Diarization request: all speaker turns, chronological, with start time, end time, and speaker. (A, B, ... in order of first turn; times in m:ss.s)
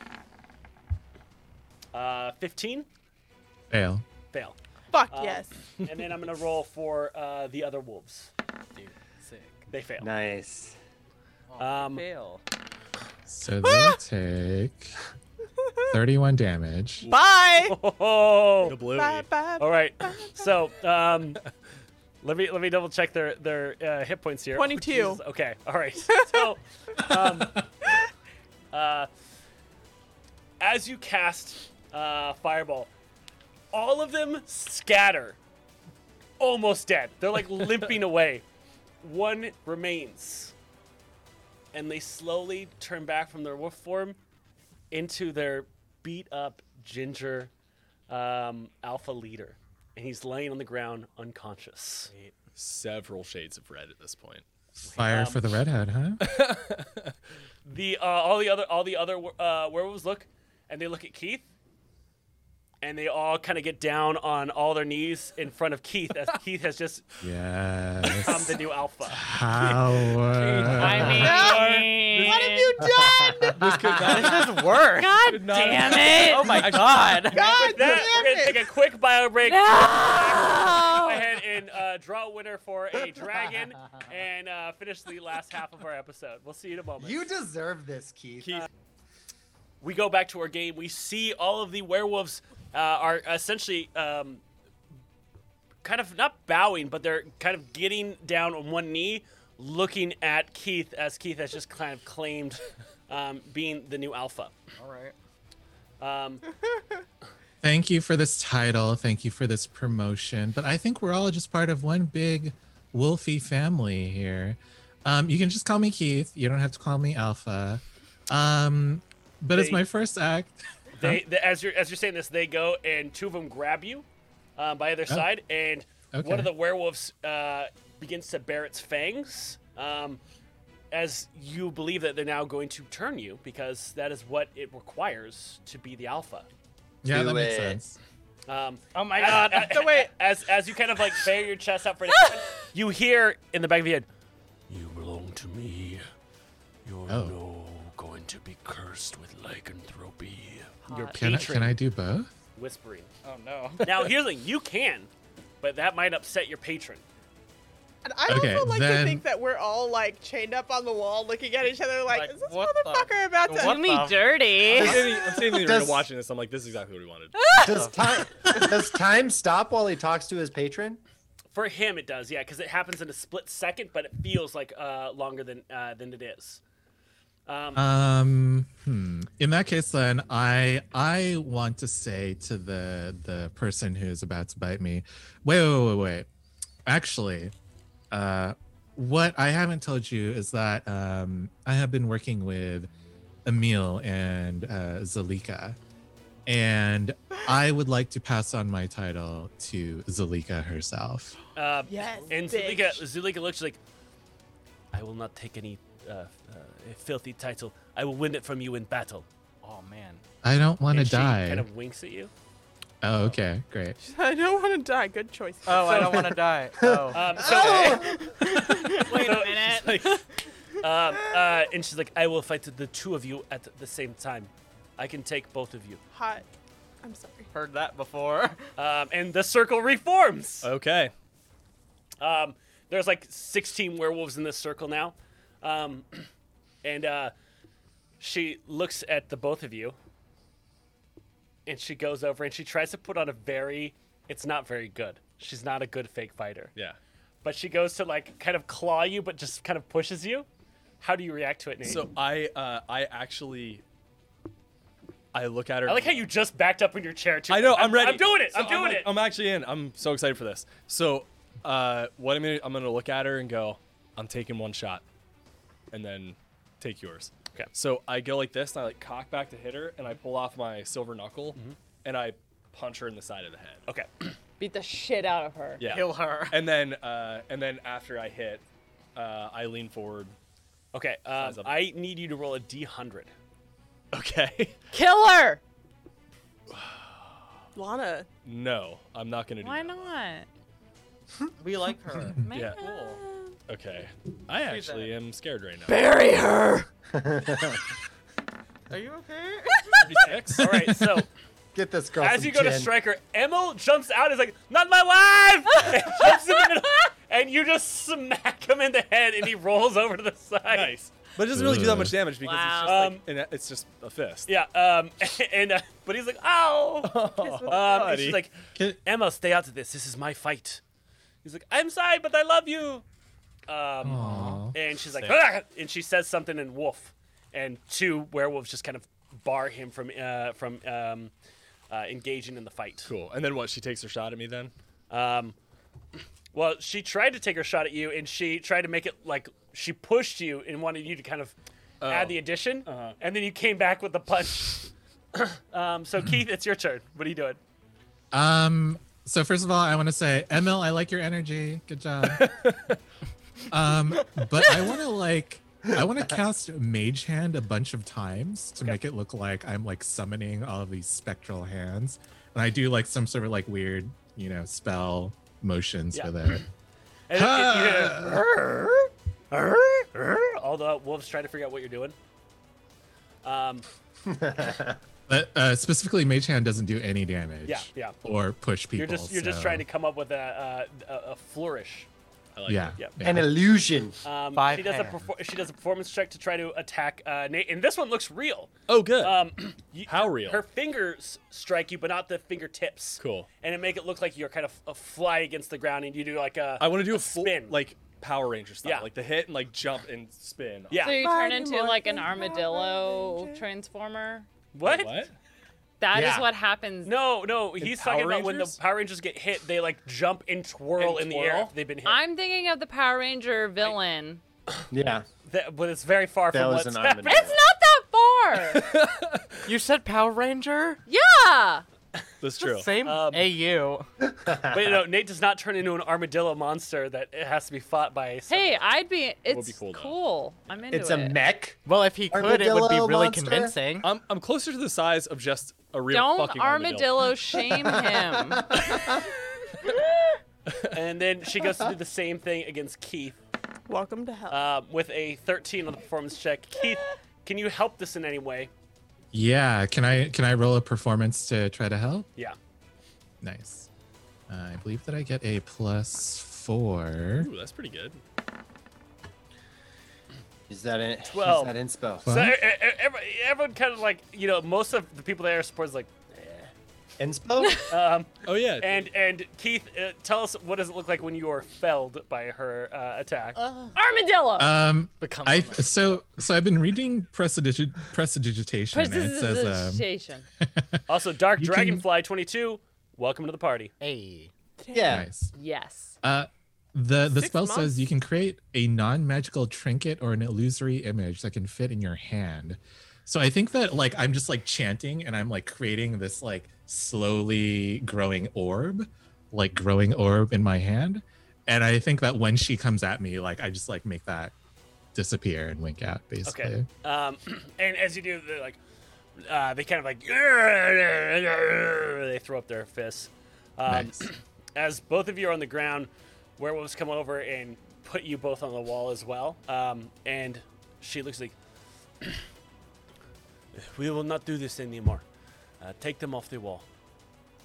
0:01.9-0:02.9 A
0:03.7-0:04.0 B
0:04.3-0:04.6 A
0:04.9-0:05.5 C
0:05.1-0:08.3 A
0:08.7-0:09.7 D
0:09.7-0:10.1 A
0:10.0-0:10.8 E
0:11.5-0:12.4 D
0:11.6-0:12.0 A
0:13.2-0:15.0 B
0:13.6-0:14.0 C
0:15.9-0:17.1 B
0:17.0-0:17.8 C
0:17.6-0:18.8 A
0:18.6-0:19.3 F
0:18.7-0:20.5 C
0:19.6-0:21.4 A
0:22.2-0:27.6 A
0:24.5-0:25.2 C
0:26.1-0:26.4 C
0:28.7-0:29.1 A
0:30.6-0:32.9 A
0:33.7-0:35.4 A
0:36.4-0:38.4 A
0:39.0-0:40.5 A
0:41.7-0:44.2 A
0:44.9-0:47.5 A
0:48.1-0:52.1 A
0:52.1-0:52.3 D
0:52.6-0:54.4 F
0:54.8-0:56.2 B
0:54.9-0:55.2 D
0:55.0-0:55.4 A
0:56.2-0:57.2 F
0:57.6-1:01.4 A
1:02.8-1:07.0 A
1:07.2-1:08.6 B
1:08.1-1:09.2 A
1:09.1-1:11.5 B
1:10.4-1:11.1 A
1:10.4-1:12.6 F
1:10.7-1:12.7 G
1:11.0-1:13.6 C
1:12.9-1:14.2 E
1:13.5-1:17.4 F
1:13.9-1:15.2 D
1:15.0-1:16.7 G
1:16.2-1:17.6 D
1:17.3-1:18.7 C
1:17.6-1:27.2 A
1:19.4-1:21.2 G
1:27.0-1:28.6 E
1:29.8-1:34.4 A
1:35.8-1:44.5 A
1:44.8-1:45.1 D
1:46.0-1:46.4 A
1:47.6-2:01.2 B
1:59.5-1:59.8 A
2:01.0-2:04.0 A
2:04.6-2:10.2 A
2:06.1-2:06.5 B
2:10.9-2:16.5 A
2:17.0-2:18.0 B
2:17.0-2:17.8 E
2:18.5-2:24.1 A
2:18.9-2:19.9 D
2:19.2-2:20.1 C
2:24.7-2:26.0 A
2:26.8-2:31.8 A
2:27.1-2:27.4 B
2:30.9-2:31.5 G
2:31.1-2:32.3 B
2:32.6-2:33.1 A
2:33.2-2:34.0 D
2:33.8-2:35.1 A
2:35.6-2:37.0 A
2:38.0-2:44.1 C
2:38.2-2:39.2 B
2:42.1-2:44.2 D
2:43.6-2:45.0 G
2:44.7-2:46.1 E
2:44.8-2:47.6 F
2:44.8-2:45.5 C
2:47.4-2:47.7 G
2:47.6-2:51.0 E
2:47.7-2:47.9 D
2:51.5-2:56.6 A
2:57.5-2:57.8 A
2:57.8-3:06.3 B
3:06.8-3:07.5 B
3:08.1-3:12.9 B
3:13.4-3:15.8 B
3:16.4-3:21.4 B
3:21.5-3:23.8 A
3:21.8-3:23.0 C
3:24.9-3:29.2 A
3:29.6-3:30.2 D
3:30.4-3:31.7 B
3:30.9-3:32.3 A
3:33.0-3:34.0 B
3:34.0-3:36.3 C
3:35.6-3:37.4 D
3:35.8-3:36.2 A
3:36.8-3:38.1 E
3:37.1-3:38.1 A
3:37.4-3:39.3 C
3:39.0-3:40.2 D
3:39.0-3:39.8 A
3:39.8-3:40.2 F
3:40.8-3:46.0 A
3:41.1-3:41.6 C
3:46.1-3:46.5 C
3:47.0-3:47.5 C
3:47.5-3:48.6 D
3:48.8-3:50.7 A
3:50.6-3:51.1 F
3:52.2-3:56.3 A
3:56.8-3:57.3 A
3:58.2-4:00.0 A
4:01.6-4:06.7 A
4:07.4-4:10.5 A
4:11.0-4:12.0 A
4:11.8-4:13.8 F
4:15.3-4:16.3 F
4:15.8-4:19.1 A
4:17.5-4:25.0 F
4:25.9-4:33.8 F
4:33.9-4:34.3 A
4:34.6-4:35.8 G
4:35.8-4:38.6 F
4:35.8-4:36.6 D
4:39.1-4:40.3 F
4:40.9-4:43.3 A
4:41.4-4:41.8 F
4:44.1-4:44.8 F
4:44.9-4:45.6 G
4:46.7-4:47.5 F
4:47.7-4:48.3 C
4:48.4-4:50.1 F
4:49.6-4:50.5 G
4:51.6-4:53.2 D
4:52.4-4:53.6 G
4:52.5-4:52.8 F
4:53.7-4:56.0 F
4:54.6-4:55.2 D
4:55.9-4:56.9 D
4:57.1-4:57.8 E
4:58.9-5:00.3 D
5:00.0-5:00.7 F
5:00.2-5:01.3 A
5:01.7-5:02.9 E
5:02.2-5:10.9 A
5:10.7-5:14.5 F
5:11.5-5:12.2 B
5:12.4-5:13.0 G
5:12.8-5:13.2 A
5:14.5-5:20.8 A
5:17.0-5:18.4 F
5:17.4-5:18.2 C
5:21.4-5:23.0 A
5:23.7-5:31.3 A
5:24.0-5:24.8 B
5:24.2-5:24.6 D
5:31.9-5:33.1 A
5:33.0-5:34.7 F
5:35.1-5:35.5 A
5:36.5-5:41.5 A
5:42.0-5:43.1 F
5:42.0-5:47.6 A
5:48.3-5:52.5 B
5:52.2-5:53.0 F
5:53.7-6:06.6 B
5:55.9-5:56.4 E
6:06.1-6:06.6 A
6:07.3-6:12.2 A
6:07.3-6:08.4 B
6:13.4-6:13.8 A
6:14.2-6:15.0 E
6:15.3-6:19.8 B
6:17.6-6:18.2 A
6:18.9-6:22.1 A
6:22.5-6:23.1 F
6:22.7-6:23.6 B
6:23.2-6:24.2 E
6:24.2-6:37.8 A
6:24.5-6:25.3 D
6:28.9-6:29.4 F
6:30.0-6:30.6 F
6:33.2-6:33.5 F
6:36.8-6:41.1 F
6:38.8-6:39.1 A
6:40.9-6:41.2 A
6:41.0-6:44.5 G
6:41.1-6:43.6 C
6:44.7-6:45.2 A
6:44.8-6:45.3 F
6:46.0-6:47.1 G
6:46.1-6:46.5 E
6:47.0-6:52.2 A
6:47.8-6:48.8 F
6:51.0-6:51.7 F
6:52.0-6:54.4 G
6:54.9-6:55.2 E
6:55.4-6:57.5 A
6:56.5-6:57.6 E
6:57.2-6:58.9 G
6:58.6-6:59.7 F
6:59.6-7:01.0 D
7:01.1-7:01.8 G
7:02.4-7:02.9 F
7:02.6-7:04.1 D
7:03.0-7:03.4 A
7:04.2-7:05.0 E
7:04.7-7:08.8 A
7:08.5-7:11.4 G
7:09.5-7:10.2 F
7:10.9-7:11.8 E
7:11.8-7:14.1 D
7:12.3-7:13.8 E
7:14.0-7:17.4 F
7:16.1-7:18.8 G
7:17.9-7:19.2 E
7:20.7-7:21.0 F
7:20.9-7:23.4 A
7:23.9-7:24.6 C
7:24.5-7:28.7 A
7:29.3-7:32.3 B
7:33.4-7:33.9 B
7:34.5-7:37.5 B
7:37.4-7:38.2 F
7:40.7-7:42.2 E
7:41.2-7:46.7 A
7:42.2-7:42.6 B
7:47.2-7:47.8 E
7:47.9-7:53.6 A
7:48.4-7:49.0 F
7:53.6-7:53.9 D
7:53.9-7:54.7 G
7:54.6-8:00.0 B
7:55.2-7:56.2 D
7:58.9-8:00.5 G
8:00.6-8:01.0 B
8:01.1-8:03.9 A
8:01.6-8:02.0 B
8:04.0-8:04.5 D
8:04.8-8:05.2 C
8:04.9-8:05.3 E
8:05.1-8:05.5 B
8:05.5-8:06.1 G
8:06.2-8:24.5 B
8:07.3-8:07.9 C
8:25.1-8:26.9 B
8:26.4-8:28.8 A
8:29.4-8:41.5 A
8:33.9-8:34.3 B
8:43.7-8:45.2 A
8:45.8-8:46.8 A